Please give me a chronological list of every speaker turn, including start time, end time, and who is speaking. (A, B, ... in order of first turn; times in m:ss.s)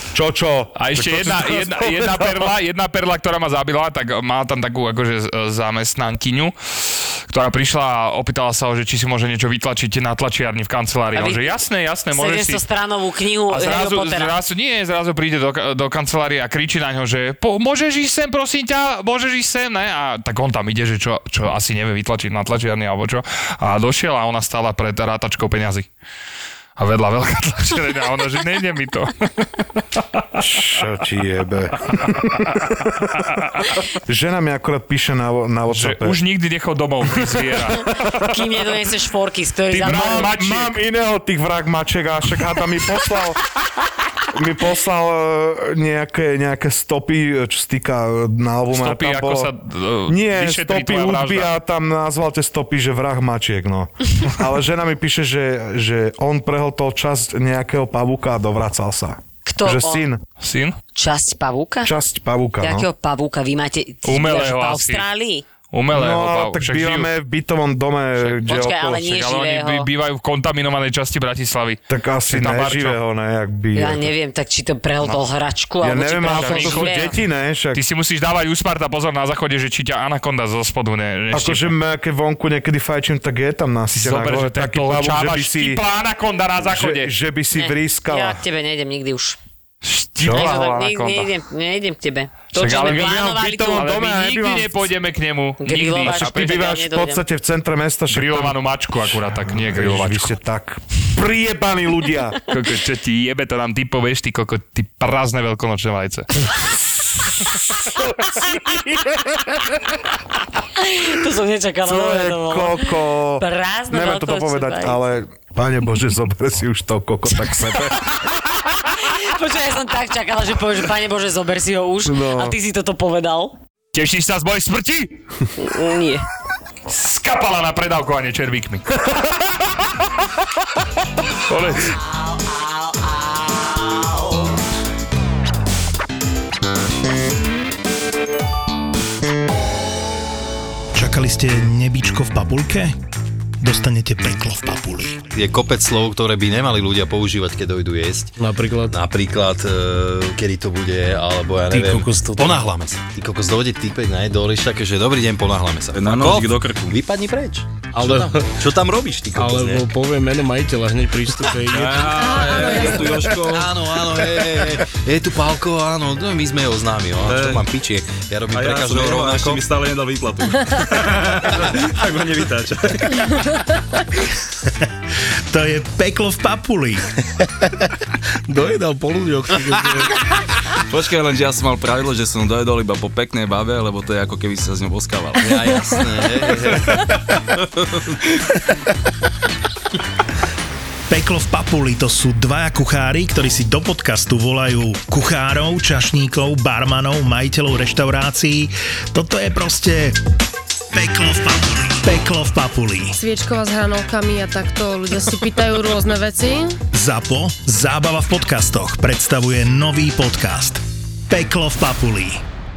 0:00.1-0:02.5 A
0:00.8-0:12.6 B
0:11.1-0:11.5 C
0:12.1-0:14.3 C
0:13.5-0:25.9 B
0:26.8-0:30.2 B
0:30.4-0:36.2 A
0:33.2-0:33.7 B
0:35.7-0:37.9 B
0:37.0-0:38.2 A
0:38.0-0:40.3 C
0:39.7-0:40.7 B
0:39.8-0:43.4 A
0:44.3-0:49.5 A
0:48.7-0:51.5 B
0:50.1-1:00.2 A
0:59.4-1:00.0 C
1:00.4-1:00.8 B
1:00.9-1:01.9 C
1:01.8-1:02.9 A
1:02.6-1:05.4 C
1:04.0-1:05.0 B
1:05.7-1:07.1 B
1:05.9-1:09.0 A
1:08.2-1:13.0 B
1:08.5-1:09.9 C
1:11.9-1:14.1 A
1:13.7-1:17.1 C
1:15.8-1:17.8 A
1:16.3-1:17.1 B
1:17.7-1:21.7 B
1:21.3-1:25.8 A
1:23.9-1:27.1 B
1:26.6-1:28.4 A
1:27.5-1:29.4 C
1:29.8-1:31.3 B
1:30.2-1:30.6 A
1:30.3-1:33.9 C
1:32.6-1:33.2 B
1:32.6-1:34.9 A
1:33.7-1:36.5 B
1:35.6-1:37.2 C
1:36.0-1:38.6 A
1:38.1-1:40.3 B
1:39.3-1:42.4 A
1:42.5-1:46.5 B
1:47.2-1:49.9 A
1:50.7-1:55.0 C
1:51.8-1:58.1 A
1:57.4-1:58.2 C
1:58.7-2:03.6 C
2:02.0-2:02.6 A
2:03.9-2:05.2 B
2:05.6-2:06.2 C
2:06.9-2:09.5 B
2:11.5-2:12.0 B
2:20.9-2:22.9 D
2:23.6-2:25.2 D
2:25.3-2:28.3 E
2:28.4-2:29.0 F
2:28.8-2:39.9 E
2:35.9-2:37.0 G
2:38.0-2:38.5 F
2:39.3-2:42.7 F
2:41.7-2:43.8 G
2:42.3-2:49.7 E
2:47.2-2:47.7 G
2:48.5-2:53.4 G
2:55.5-2:57.1 D
2:58.5-3:00.1 F
3:00.9-3:07.1 G
3:05.4-3:07.0 E
3:11.1-3:20.2 D
3:20.9-3:23.2 D
3:23.2-3:26.8 H
3:26.9-3:32.4 D